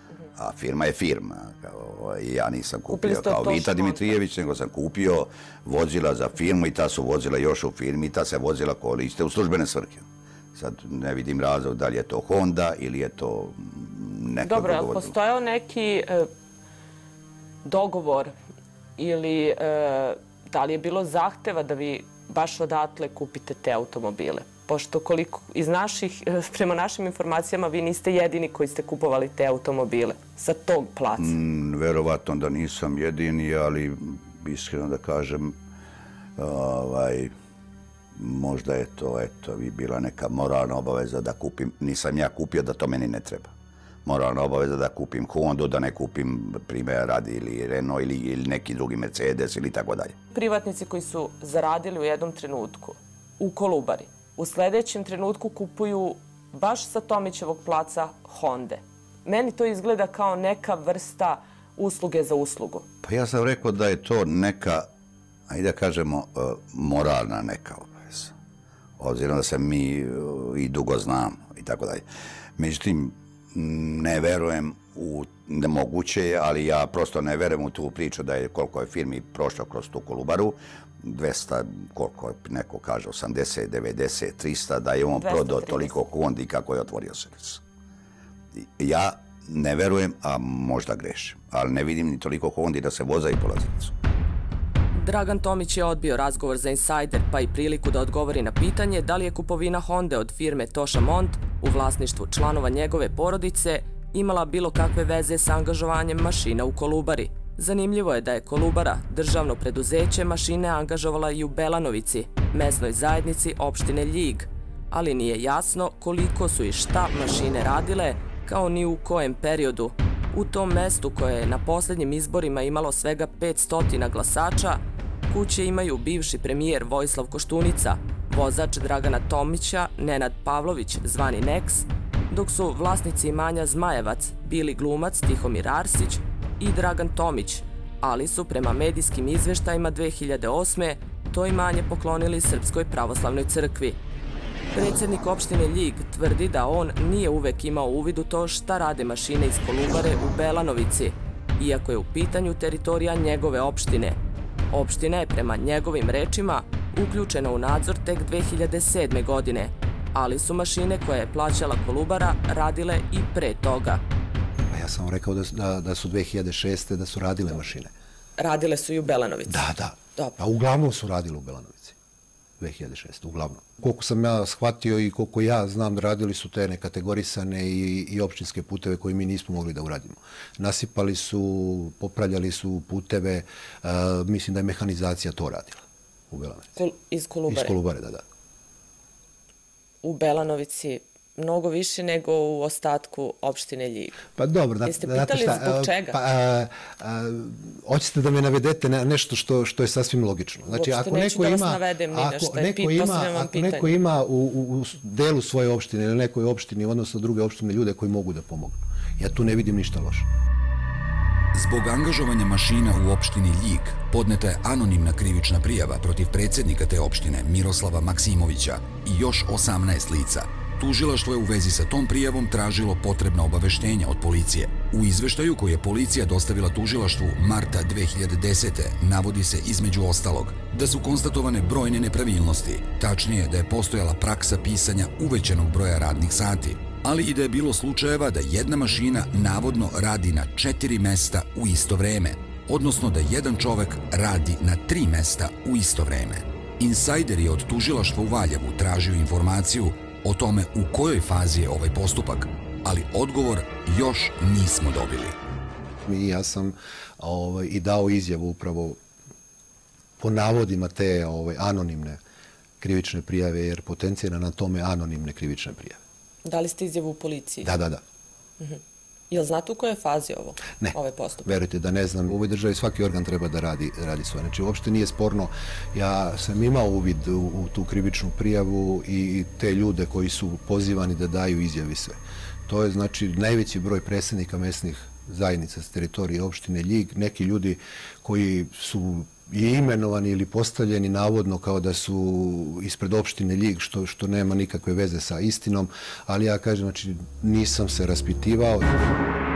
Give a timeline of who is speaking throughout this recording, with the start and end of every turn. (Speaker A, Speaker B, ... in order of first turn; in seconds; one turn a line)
Speaker A: 0.4-15.1
Speaker B: 2.9-4.1
Speaker B: 14.4-16.3
Speaker B: 17.6-18.3
Speaker B: 19.0-31.3
Speaker A: 31.2-35.6
Speaker A: 36.4-37.3
Speaker A: 38.2-43.5
Speaker A: 44.0-50.2
Speaker B: 50.3-62.9
Speaker A: 63.0-64.9
Speaker A: 65.5-68.3
Speaker A: 69.0-72.0
Speaker A: 72.6-87.6
Speaker B: 85.2-85.9
Speaker A: 88.6-93.9
Speaker B: 94.9-144.0
Speaker B: 144.7-154.2
Speaker B: 154.7-164.0
Speaker C: 164.7-167.9
Speaker B: 168.4-170.3
Speaker C: 169.5-172.0
Speaker C: 172.6-186.8
Speaker B: 186.8-187.8
Speaker C: 187.5-188.2
Speaker B: 190.0-194.2
Speaker C: 194.3-210.3
Speaker B: 194.9-196.2
Speaker B: 200.7-203.9
Speaker D: 211.5-255.4
Speaker C: 256.0-259.0
Speaker C: 260.2-262.2
Speaker C: 262.8-266.0
Speaker B: 266.4-267.7
Speaker C: 267.6-268.0
Speaker B: 268.6-271.5
Speaker C: 270.8-298.9